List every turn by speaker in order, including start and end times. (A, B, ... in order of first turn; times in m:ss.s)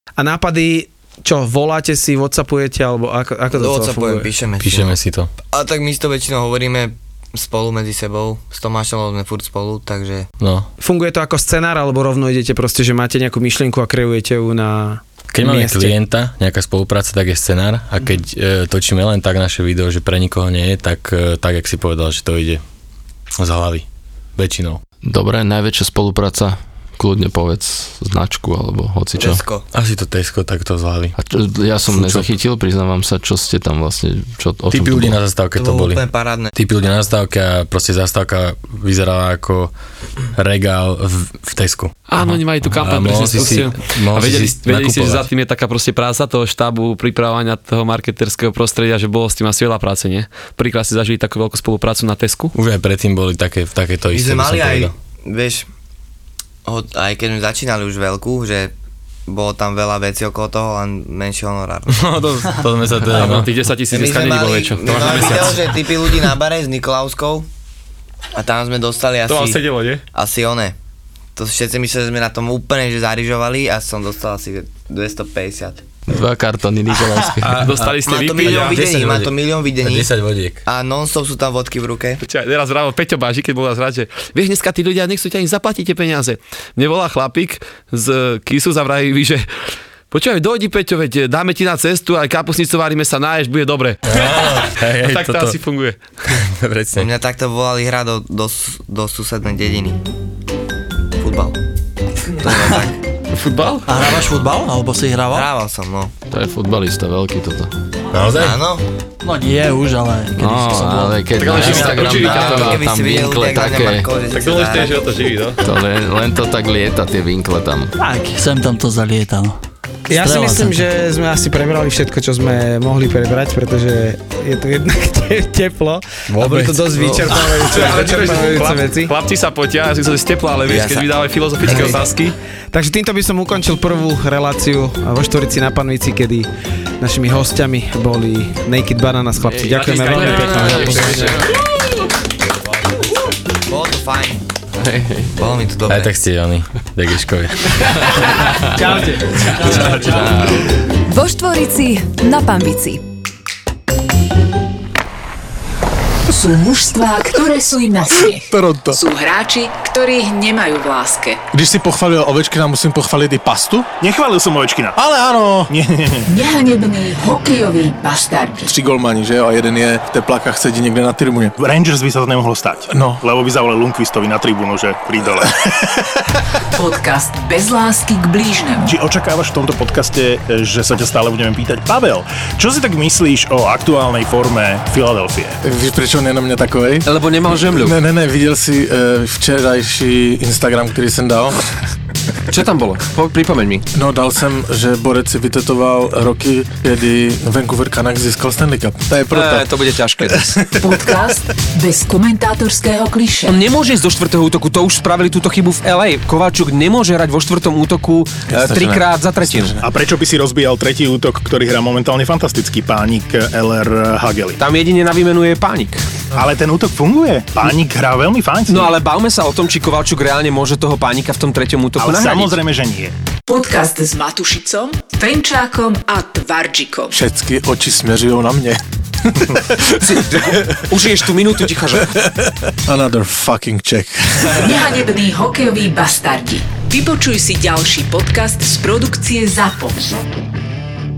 0:00.2-0:04.3 A
0:03.5-0:10.3 B
0:04.6-0:05.3 C
0:10.4-0:10.7 C
0:10.8-0:16.0 A
0:15.3-0:22.6 C
0:23.4-0:23.8 C
0:24.4-0:24.8 C
0:25.0-0:29.4 D
0:29.2-0:29.6 B
0:29.7-0:31.1 C
0:31.2-0:35.2 D
0:31.9-0:32.3 C
0:34.7-0:36.0 C
0:35.5-0:36.5 B
0:36.5-0:39.7 C
0:40.3-0:45.2 C
0:42.1-0:52.5 E
0:52.5-0:54.9 C
0:54.1-0:55.7 B
0:56.6-0:58.7 B
0:59.3-1:02.0 B
1:01.9-1:03.5 C
1:03.0-1:05.8 E
1:03.9-1:07.5 B
1:08.3-1:09.6 B
1:09.3-1:10.0 E
1:10.1-1:10.8 B
1:11.4-1:15.8 B
1:16.1-1:17.6 D
1:17.4-1:18.8 E
1:17.6-1:20.6 C
1:18.0-1:20.1 B
1:20.6-1:22.2 B
1:22.2-1:29.4 E
1:30.1-1:36.0 E
1:34.0-1:35.6 C
1:36.3-1:37.1 C
1:36.9-1:40.0 B
1:41.2-1:41.6 B
1:42.4-1:43.0 B
1:43.3-1:43.9 E
1:43.9-1:45.5 F
1:45.3-1:46.1 B
1:46.3-1:47.7 D
1:48.1-1:48.6 C
1:48.4-1:48.8 B
1:49.2-1:51.2 F
1:50.4-1:54.1 D
1:51.4-1:52.8 E
1:51.5-1:55.0 B
1:54.3-1:55.6 E
1:55.6-1:57.9 D
1:58.0-1:59.6 F
2:00.1-2:09.1 A
2:00.1-2:00.8 F
2:06.3-2:07.2 C
2:07.1-2:07.4 D
2:07.7-2:12.3 E
2:10.7-2:11.1 D
2:11.7-2:12.0 D
2:12.7-2:16.5 A
2:17.0-2:21.5 A
2:19.4-2:21.6 D
2:19.8-2:21.5 E
2:23.6-2:24.4 B
2:24.8-2:25.3 D
2:25.3-2:26.1 B
2:25.9-2:28.2 C
2:28.1-2:28.7 D
2:28.7-2:30.3 A
2:29.7-2:30.7 D
2:31.1-2:33.0 G
2:36.3-2:41.4 H
2:38.5-2:39.0 I
2:41.5-2:43.9 I
2:44.0-2:45.0 J
2:45.0-2:45.7 I
2:45.7-2:46.3 J
2:46.3-2:48.7 H
2:48.6-2:51.6 I
2:51.6-2:55.5 J
2:52.9-2:53.2 I
2:56.7-2:58.9 H
2:58.8-3:05.6 J
3:05.6-3:07.1 I
3:07.0-3:08.0 K
3:07.6-3:11.6 I
3:12.5-3:13.8 K
3:13.9-3:19.7 I
3:19.3-3:20.6 K
3:20.3-3:20.6 I
3:20.8-3:23.6 H
3:23.4-3:29.7 K
3:28.5-3:29.8 I
3:29.8-3:34.6 J
3:34.6-3:36.0 K
3:36.4-3:38.9 J
3:38.7-3:42.6 K
3:42.0-3:43.1 J
3:43.5-3:47.2 H
3:47.1-3:48.8 I
3:49.4-3:49.9 I
3:50.0-3:52.1 K
3:50.5-3:50.8 I
3:52.9-3:54.7 I
3:54.5-4:00.2 H